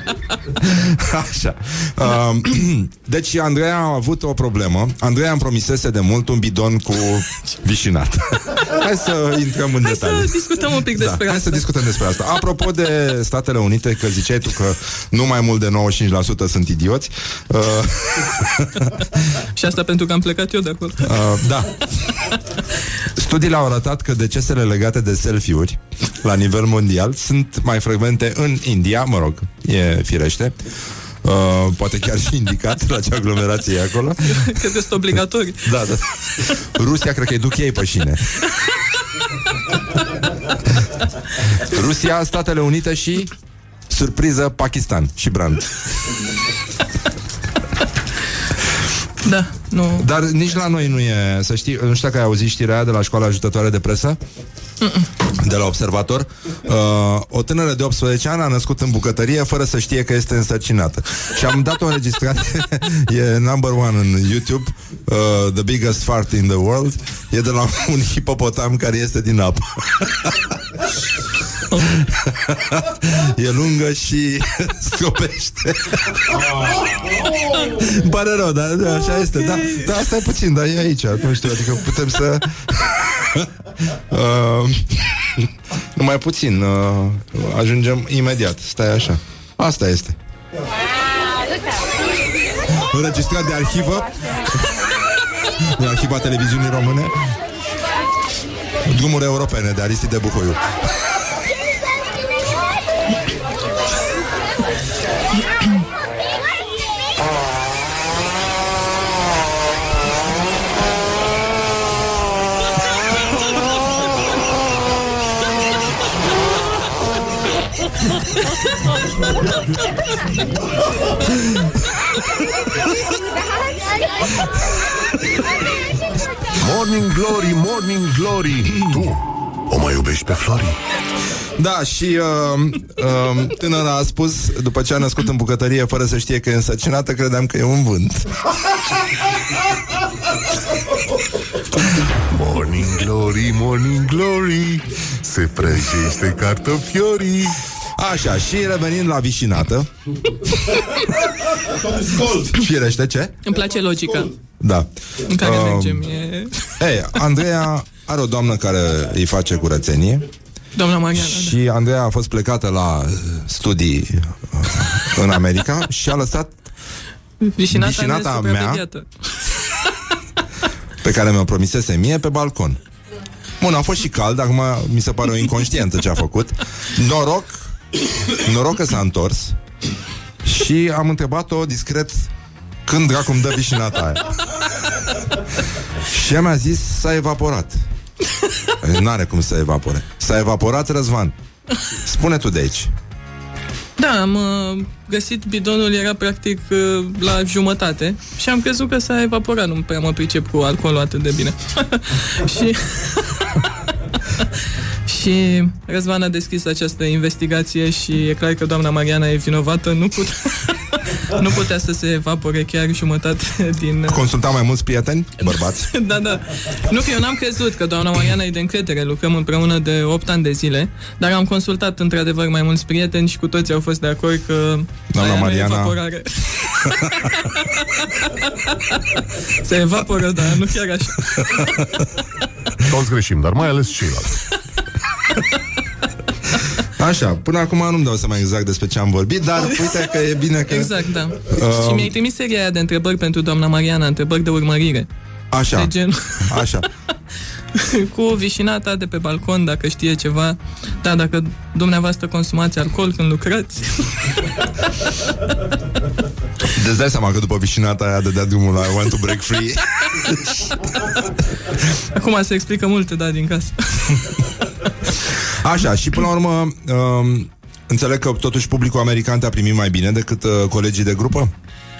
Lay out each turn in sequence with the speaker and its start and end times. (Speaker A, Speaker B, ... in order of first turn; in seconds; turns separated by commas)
Speaker A: 0.6-10.3, Speaker B: 9.8-11.7, Speaker A: 10.9-18.9, Speaker B: 19.5-21.1, Speaker A: 21.0-21.9, Speaker A: 23.1-30.7, Speaker A: 31.2-34.4, Speaker B: 34.2-35.7, Speaker A: 35.6-38.3, Speaker A: 41.5-43.3, Speaker A: 43.9-45.7, Speaker B: 49.2-50.1, Speaker A: 50.0-54.2, Speaker B: 54.8-55.1, Speaker A: 55.3-70.5, Speaker A: 71.9-76.5, Speaker A: 77.7-90.2, Speaker B: 78.9-80.0, Speaker A: 92.7-94.8, Speaker A: 95.7-97.1, Speaker A: 98.8-100.6, Speaker C: 126.5-130.8, Speaker A: 131.6-138.3, Speaker C: 142.3-147.6, Speaker A: 148.0-149.9, Speaker A: 151.9-153.4, Speaker B: 153.4-154.3, Speaker A: 154.6-156.0, Speaker B: 155.2-156.7, Speaker A: 156.8-160.3, Speaker B: 160.7-161.6, Speaker A: 161.1-166.5, Speaker B: 167.4-169.6, Speaker A: 167.7-168.8, Speaker A: 171.0-172.8, Speaker A: 173.6-177.7, Speaker A: 178.3-179.6, Speaker A: 180.4-182.3, Speaker A: 182.8-184.3, Speaker A: 186.1-187.8, Speaker A: 188.8-191.3, Speaker A: 191.9-192.9, Speaker B: 194.0-203.6, Speaker B: 205.1-214.2, Speaker A: 214.1-215.9, Speaker B: 215.8-232.0, Speaker A: 225.1-225.9, Speaker C: 232.8-234.4, Speaker A: 236.9-242.1, Speaker B: 240.7-245.1, Speaker A: 245.5-245.9, Speaker B: 245.7-246.7, Speaker A: 246.4-246.8, Speaker B: 247.7-254.3, Speaker A: 256.6-260.6, Speaker B: 262.1-264.4, Speaker A: 265.6-271.5